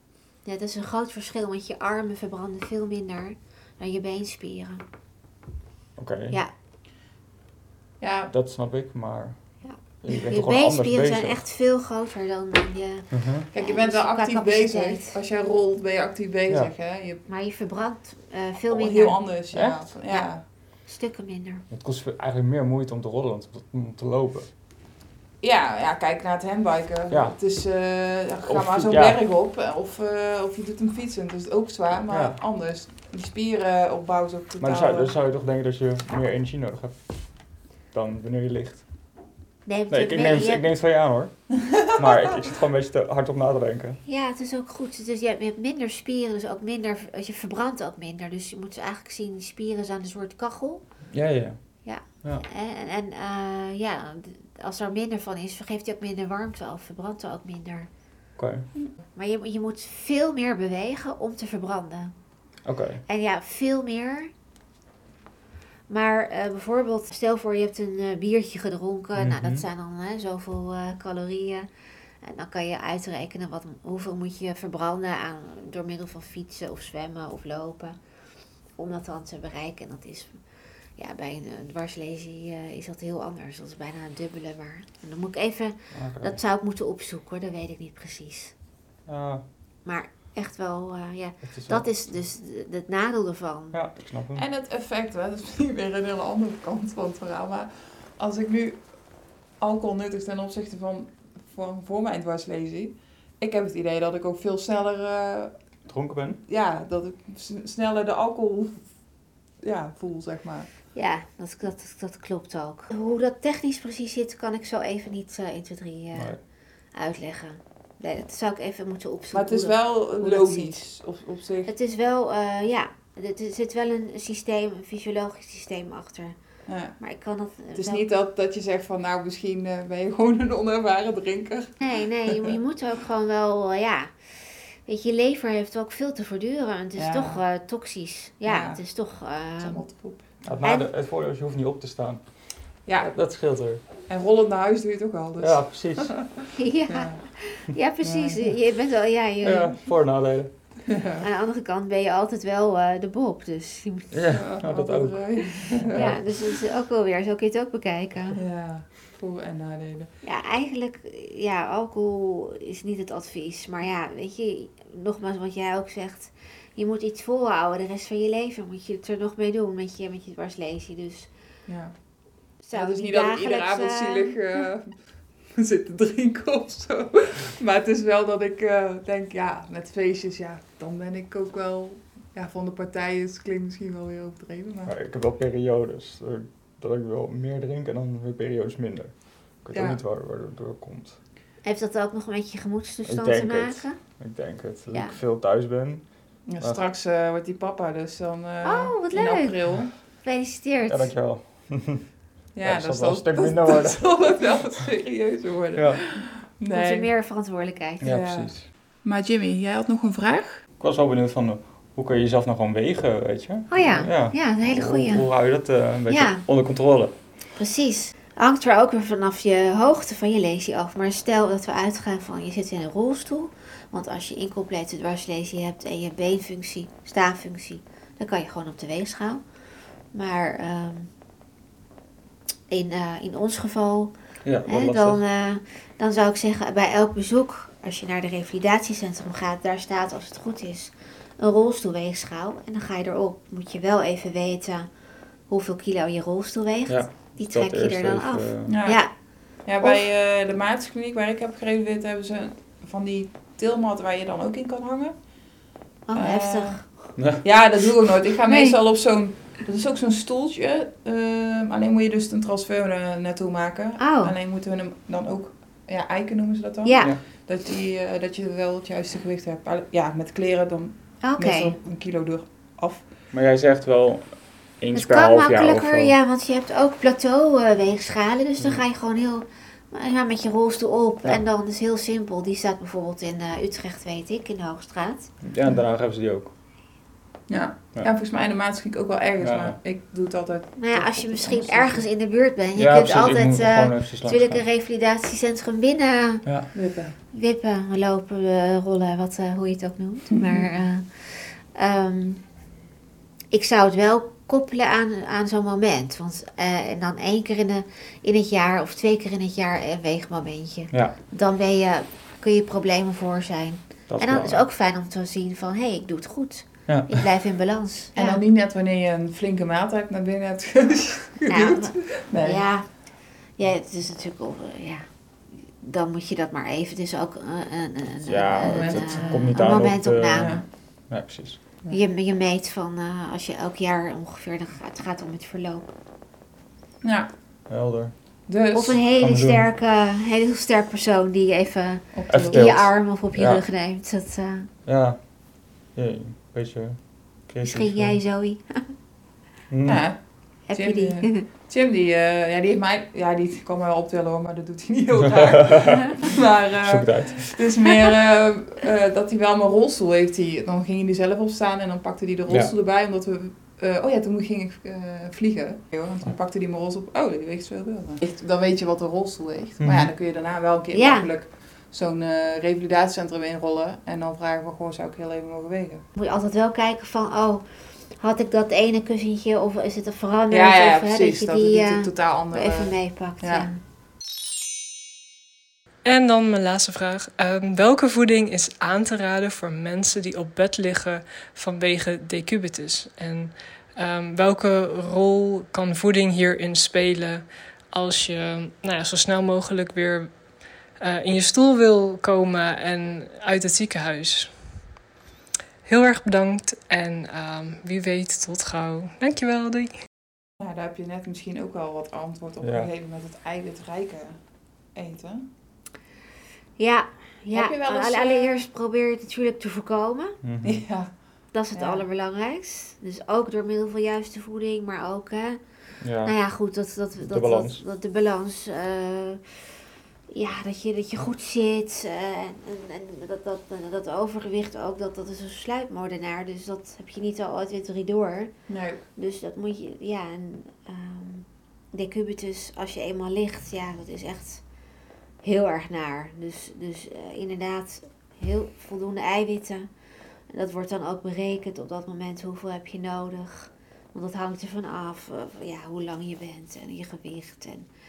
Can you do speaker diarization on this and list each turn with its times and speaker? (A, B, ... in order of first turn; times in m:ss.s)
0:00.4-0:04.8 A
0:06.0-0:06.4 B
0:08.0-0:08.3 C
0:08.3-0:11.4 B
0:09.6-0:15.2 A
0:13.1-0:13.5 B
0:13.5-0:17.2 C
0:17.3-0:19.2 A
0:18.7-0:20.5 C
0:19.5-0:20.0 B
0:20.1-0:21.6 A
0:21.7-0:24.5 B
0:25.4-0:35.1 C
0:27.1-0:27.9 B
0:28.5-0:29.2 B
0:32.1-0:32.4 B
0:34.6-0:38.9 B
0:39.7-0:40.7 A
0:39.9-0:44.0 B
0:44.1-0:51.0 A
0:51.1-0:52.4 B
0:51.8-0:57.9 A
0:58.4-0:58.7 B
0:59.1-1:02.1 A
1:02.6-1:03.0 B
1:03.1-1:04.3 A
1:05.9-1:18.0 A
1:09.2-1:09.6 B
1:18.7-1:20.4 A
1:21.0-1:28.5 A
1:25.9-1:26.4 B
1:29.1-1:29.5 B
1:29.8-1:33.8 A
1:31.4-1:32.2 B
1:33.7-1:34.5 B
1:34.4-1:45.6 C
1:45.9-1:46.4 B
1:46.5-1:49.1 C
1:49.6-1:50.7 C
1:50.9-2:00.8 A
1:56.1-1:56.4 B
1:59.3-2:01.7 C
2:01.7-2:08.0 A
2:06.7-2:07.0 C
2:07.7-2:12.6 C
2:11.8-2:20.9 A
2:17.0-2:17.5 C
2:18.5-2:18.9 C
2:19.6-2:20.6 C
2:20.4-2:23.8 B
2:22.9-2:23.2 C
2:24.1-2:26.3 C
2:25.4-2:26.5 B
2:26.6-2:29.8 A
2:26.9-2:27.3 C
2:28.0-2:28.5 C
2:29.4-2:30.9 B
2:30.9-2:31.3 C
2:31.2-2:34.2 A
2:34.1-2:36.2 B
2:34.3-2:36.4 C
2:35.9-2:38.4 A
2:38.4-2:40.1 C
2:40.2-2:51.4 A
2:51.7-3:04.9 C
2:52.6-2:54.5 A
3:04.8-3:11.2 B
3:09.7-3:10.0 C
3:11.6-3:14.2 A
3:13.0-3:16.8 B
3:14.9-3:15.2 A
3:16.5-3:19.9 C
3:18.6-3:21.1 A
3:20.9-3:24.6 B
3:22.5-3:27.1 C
3:25.8-3:26.0 B
3:26.7-3:28.1 A
3:28.0-3:28.7 B
3:28.0-3:30.6 C
3:30.8-3:37.2 B
3:33.7-3:36.4 A
3:37.6-3:49.4 A
3:50.1-3:51.1 A
3:52.7-4:10.0 A
3:54.4-3:55.2 B
4:06.9-4:08.8 B
4:08.7-4:15.6 C
4:16.1-4:17.1 A
4:16.1-4:33.1 C
4:17.2-4:17.4 B
4:18.5-4:18.8 A
4:24.0-4:24.4 A
4:26.8-4:27.2 A
4:31.2-4:31.8 A
4:33.3-4:36.1 B
4:34.9-4:45.3 A
4:45.4-4:46.5 B
4:47.5-4:52.1 C
4:49.4-4:49.8 B
4:50.8-4:56.8 A
4:52.8-4:54.6 B
4:56.7-4:57.2 C
4:57.3-5:02.6 A
5:00.4-5:00.7 C
5:03.5-5:18.4 A
5:10.9-5:11.2 B
5:14.1-5:14.6 B
5:16.9-5:17.2 B
5:18.1-5:22.7 C
5:21.5-5:30.6 A
5:28.2-5:31.6 B
5:28.6-5:30.6 C
5:31.9-5:35.9 A
5:37.0-5:37.4 C
5:37.7-5:38.5 B
5:38.5-5:39.0 C
5:38.7-5:44.7 A
5:39.2-5:39.7 B
5:42.1-5:42.7 C
5:42.3-5:43.6 B
5:44.8-5:48.2 B
5:47.6-5:49.0 A
5:49.7-5:50.1 B
5:49.9-6:16.1 C
5:50.7-5:51.5 A
5:55.6-5:56.2 B
5:56.8-5:57.6 B
6:09.8-6:10.1 B
6:10.9-6:11.3 A
6:16.1-6:23.8 A
6:20.5-6:23.7 C
6:26.0-6:44.8 D
6:45.8-6:50.0 D
6:50.6-6:55.5 C
6:52.6-6:52.9 B
6:56.8-7:00.4 A
6:57.5-6:58.6 C
7:00.4-7:00.9 B
7:00.6-7:02.0 C
7:01.5-7:09.8 A
7:06.0-7:06.4 B
7:07.2-7:07.8 B
7:10.3-7:24.7 A
7:18.7-7:19.0 C
7:25.4-7:29.9 A
7:30.5-7:37.9 A